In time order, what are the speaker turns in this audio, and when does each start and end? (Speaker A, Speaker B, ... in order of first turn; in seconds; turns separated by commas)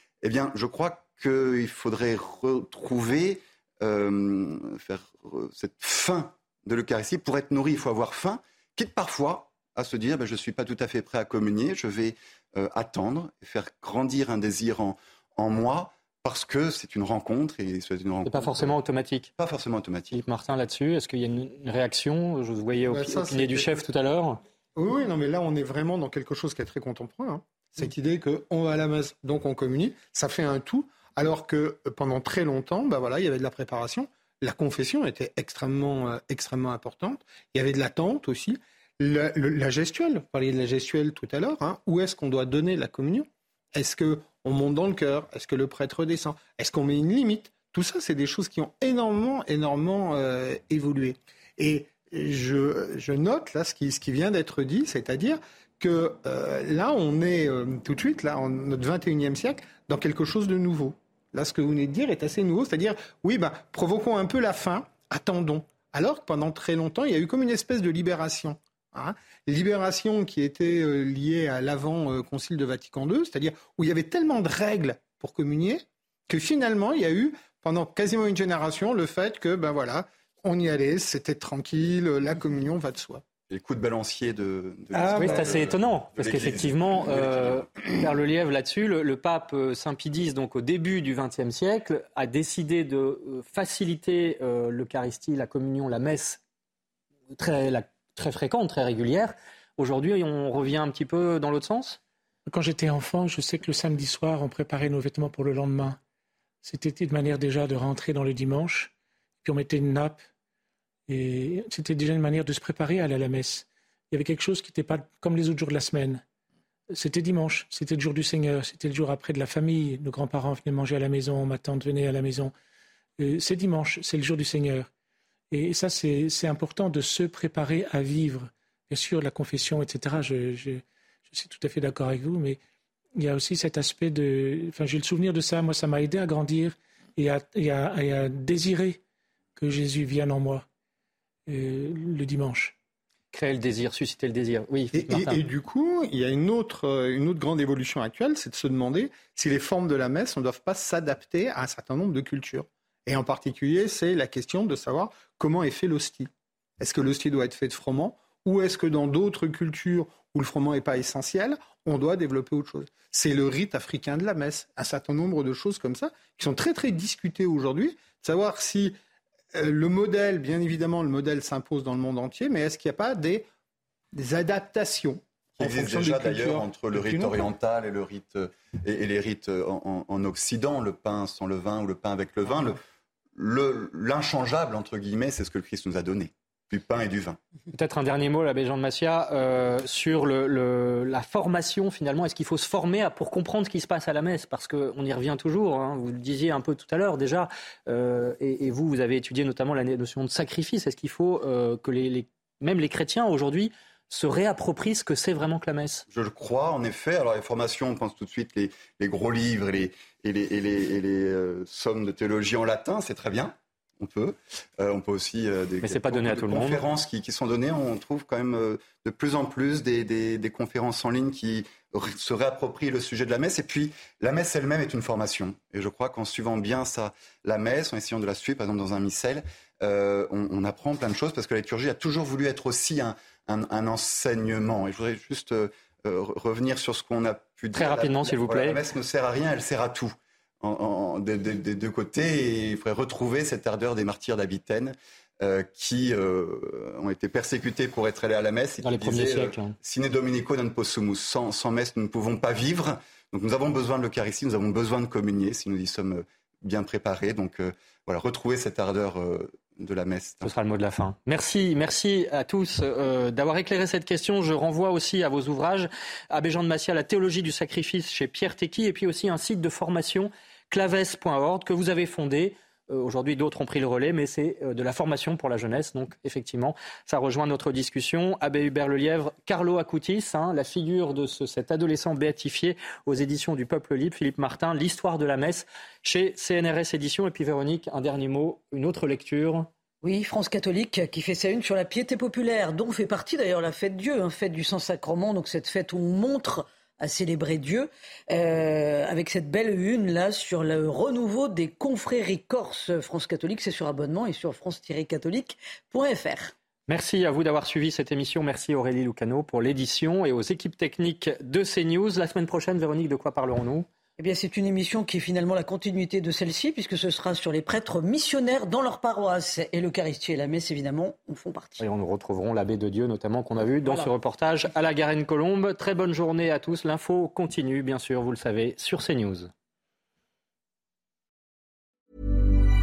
Speaker A: 0.2-18.8, Speaker B: 18.2-19.3, Speaker A: 19.4-20.2, Speaker B: 20.1-24.4, Speaker C: 22.9-23.7, Speaker C: 24.8-83.2, Speaker A: 83.5-87.7, Speaker B: 85.0-96.4, Speaker B: 97.4-102.0, Speaker D: 102.5-106.0, Speaker D: 106.6-108.9, Speaker D: 109.4-110.2, Speaker D: 111.1-116.2, Speaker D: 116.9-122.5, Speaker D: 123.2-124.9, Speaker D: 125.5-132.6, Speaker D: 133.2-139.0, Speaker D: 139.6-140.7, Speaker D: 141.5-142.8, Speaker B: 143.3-145.4, Speaker C: 144.9-156.3, Speaker C: 156.8-168.9, Speaker C: 169.5-173.4, Speaker C: 174.1-177.5, Speaker A: 175.6-182.8, Speaker A: 183.3-187.4, Speaker B: 187.7-206.1, Speaker A: 206.1-260.5, Speaker B: 215.8-216.8, Speaker B: 237.7-238.8, Speaker B: 248.8-249.8, Speaker B: 260.4-289.7, Speaker E: 290.0-306.5, Speaker B: 306.9-313.9, Speaker E: 314.2-321.8, Speaker B: 321.8-329.5, Speaker E: 323.8-324.1